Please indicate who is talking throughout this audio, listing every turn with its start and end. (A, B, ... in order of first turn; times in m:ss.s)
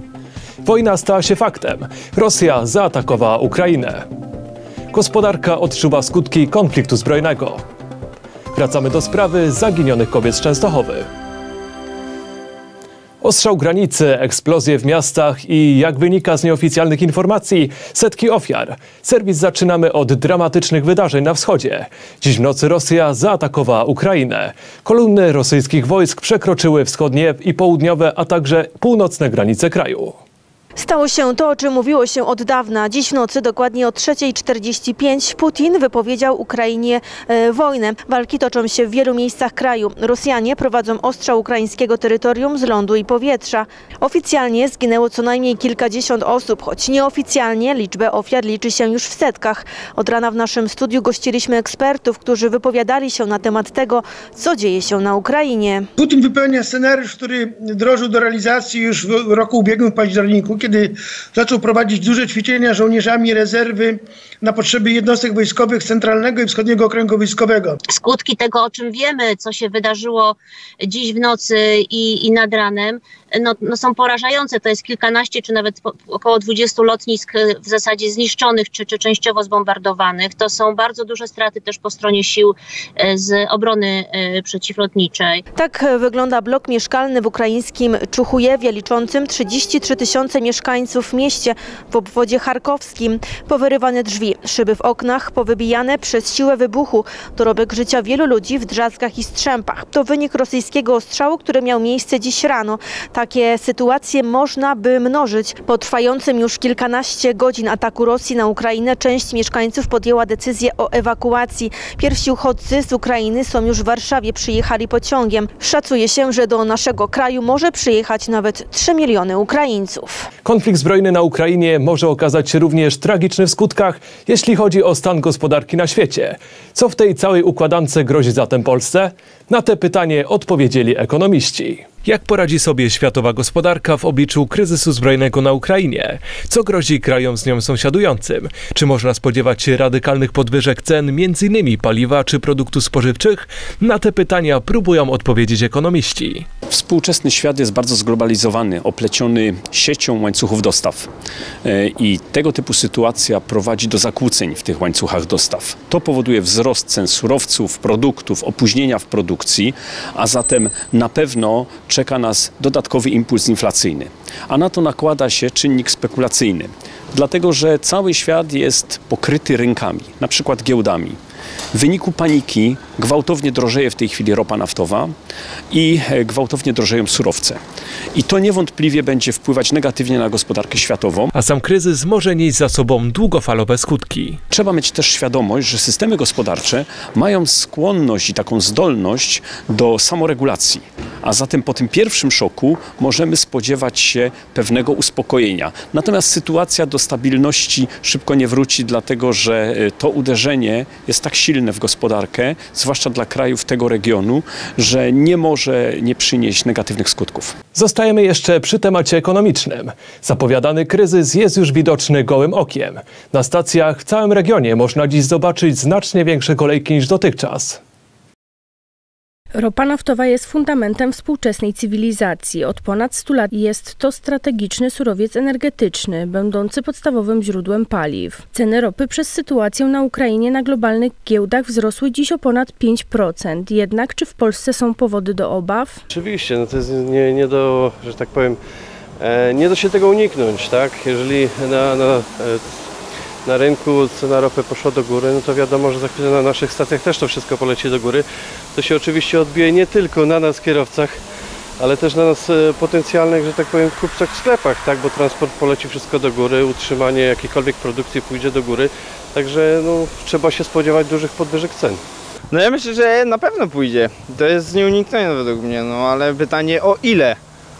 0:00.6-0:04.0 A
0:04.9-0:07.6 A
0:08.5-0:11.0 A
0:13.2-0:30.2 A
0:30.8-0:55.9 B
0:56.0-1:07.7 C
1:07.9-1:25.4 D
1:25.5-2:00.3 B
2:00.4-2:26.4 A
2:26.7-2:31.1 E
2:31.6-2:51.2 E
2:51.7-2:55.1 E
2:55.7-2:57.6 E
2:58.1-3:01.3 E
3:01.3-3:04.4 A
3:04.5-3:27.6 E
3:27.7-3:37.8 A
3:39.5-3:56.0 F
3:56.1-3:58.6 G
3:59.2-4:02.9 G
4:03.4-4:11.2 G
4:11.8-4:22.0 G
4:22.5-4:27.4 H